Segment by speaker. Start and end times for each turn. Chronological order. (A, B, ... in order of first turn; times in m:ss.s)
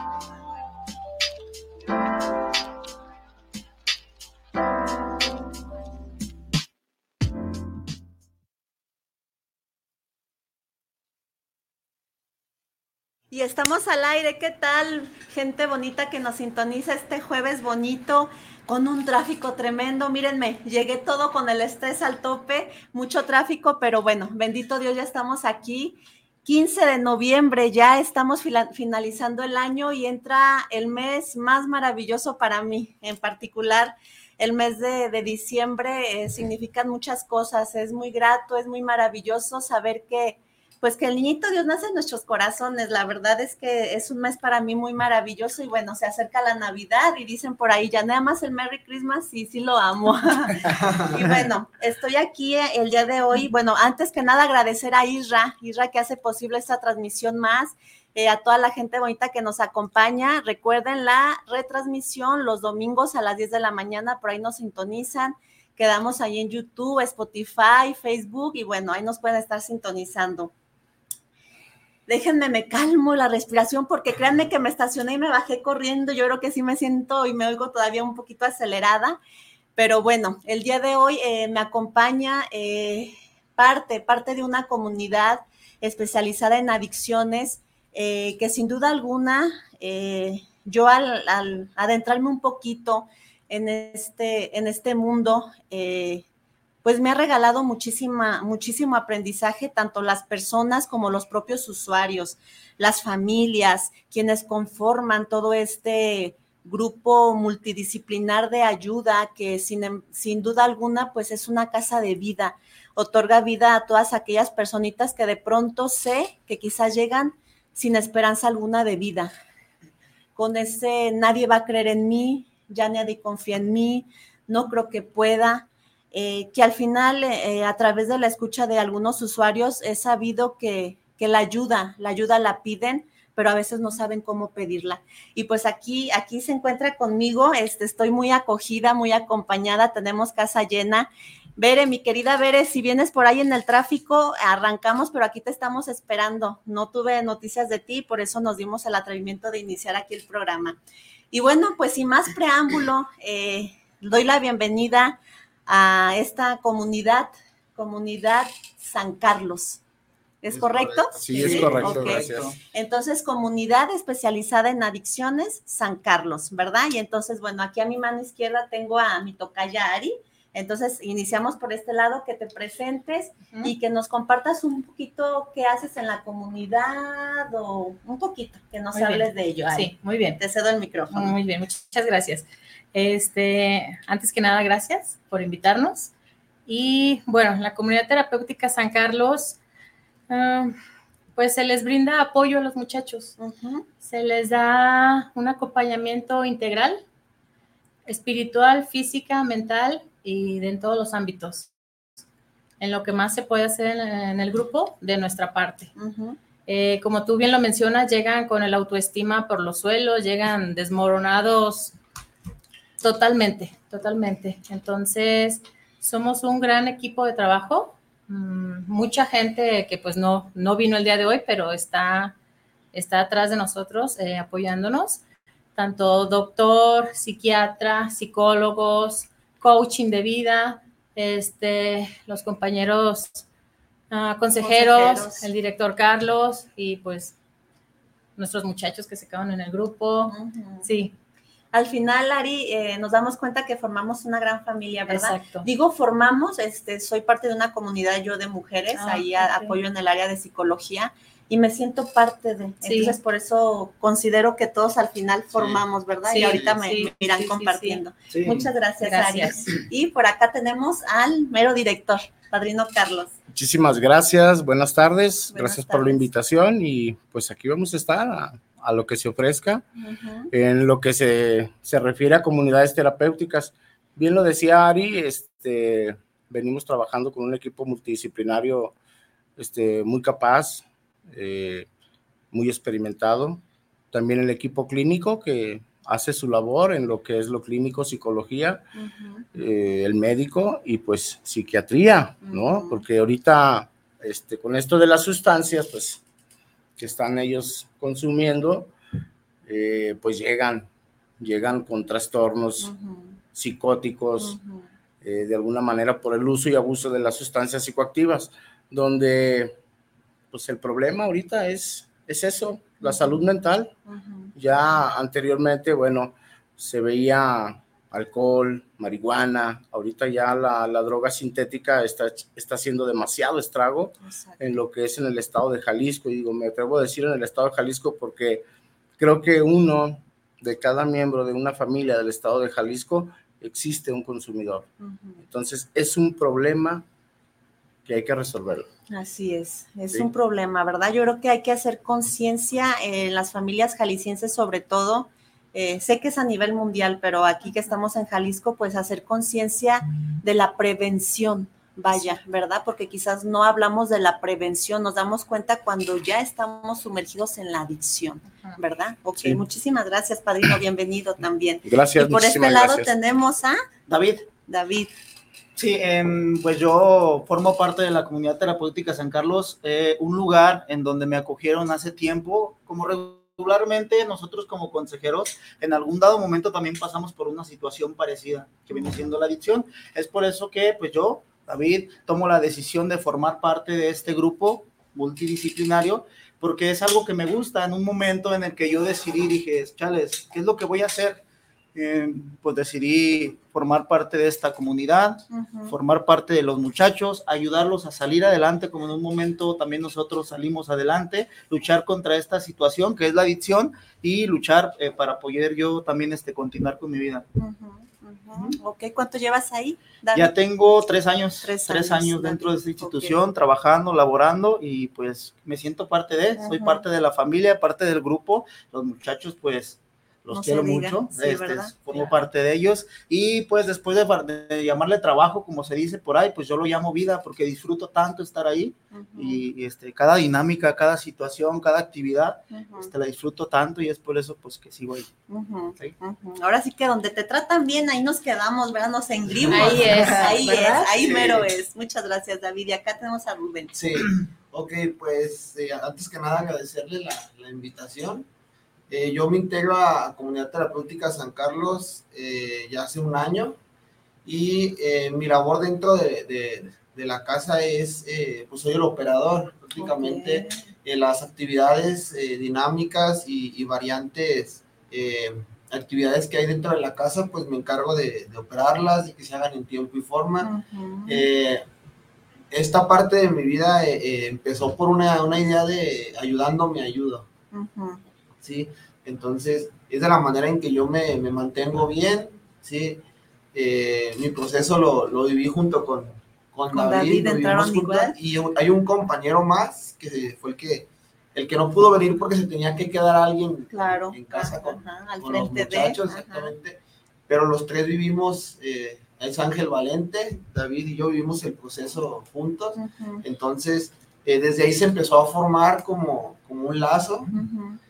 0:13.3-1:10.5 A
1:12.1-1:19.2 A
1:19.8-1:36.2 A
1:36.8-1:59.3 A
2:00.4-2:30.8 A
2:31.3-2:39.8 A
2:40.4-3:01.4 A
2:40.5-2:41.8 B
2:41.2-2:42.6 C
2:41.3-2:42.6 D
2:58.9-3:00.4 E
3:01.1-3:06.1 E
3:06.7-3:09.6 E
3:10.3-3:10.8 E
3:11.4-3:13.3 E
3:13.4-3:13.8 A
3:14.0-3:17.0 E
3:18.1-3:21.7 E
3:22.8-3:25.9 E
3:26.0-3:26.4 A
3:26.7-3:31.9 E
3:33.0-3:42.4 E
3:42.9-3:45.2 E
3:45.8-3:53.4 E
3:54.1-3:57.3 E
3:54.6-3:55.5 A
3:58.4-4:01.2 E
4:00.3-4:00.9 A
4:01.7-4:23.3 A
4:05.1-4:05.7 E
4:08.9-4:09.8 E
4:12.8-4:13.2 E
4:15.6-4:15.8 B
4:16.3-4:18.0 E
4:16.4-4:16.8 B
4:18.3-4:18.7 D
4:19.0-4:19.8 E
4:23.5-4:29.8 C
4:25.5-4:26.3 A
4:30.0-4:30.5 A
4:30.5-4:39.0 C
4:39.6-4:41.9 C
4:42.5-4:43.6 C
4:44.1-4:48.8 C
4:49.0-4:49.4 A
4:49.5-4:56.2 C
4:52.5-4:53.0 A
4:57.0-4:58.9 C
4:59.7-5:00.9 C
5:01.4-5:02.9 C
5:02.8-5:03.4 A
5:03.5-5:04.6 C
5:04.4-5:04.9 A
5:05.2-5:09.8 C
5:10.5-5:13.9 C
5:14.1-5:14.5 A
5:14.6-5:28.6 C
5:24.2-5:24.8 A
5:29.2-5:34.9 C
5:35.0-5:35.4 A
5:35.4-5:37.0 C
5:38.0-5:38.9 C
5:39.1-6:03.8 A
6:01.8-6:03.1 C
6:04.1-6:04.5 D
6:04.7-6:05.1 A
6:05.8-6:31.4 D
6:32.0-6:47.5 D
6:35.5-6:36.0 A
6:47.6-6:50.5 A
6:50.3-7:15.3 D
6:51.6-6:53.4 A
6:56.6-6:57.0 A
7:00.5-7:01.9 A
7:09.1-7:09.6 A
7:12.7-7:13.1 A
7:15.5-7:23.9 A
7:19.7-7:21.7 B
7:19.7-7:21.1 E
7:24.0-7:28.5 B
7:29.1-7:33.8 B
7:34.4-7:50.7 B
7:40.0-7:40.8 A
7:50.6-7:51.5 A
7:51.3-7:51.8 B
7:52.7-7:57.5 B
7:57.7-7:58.2 A
7:58.6-8:03.2 B
8:03.7-8:27.5 B
8:06.9-8:08.4 A
8:13.9-8:16.7 A
8:23.0-8:23.4 A
8:27.5-8:28.0 A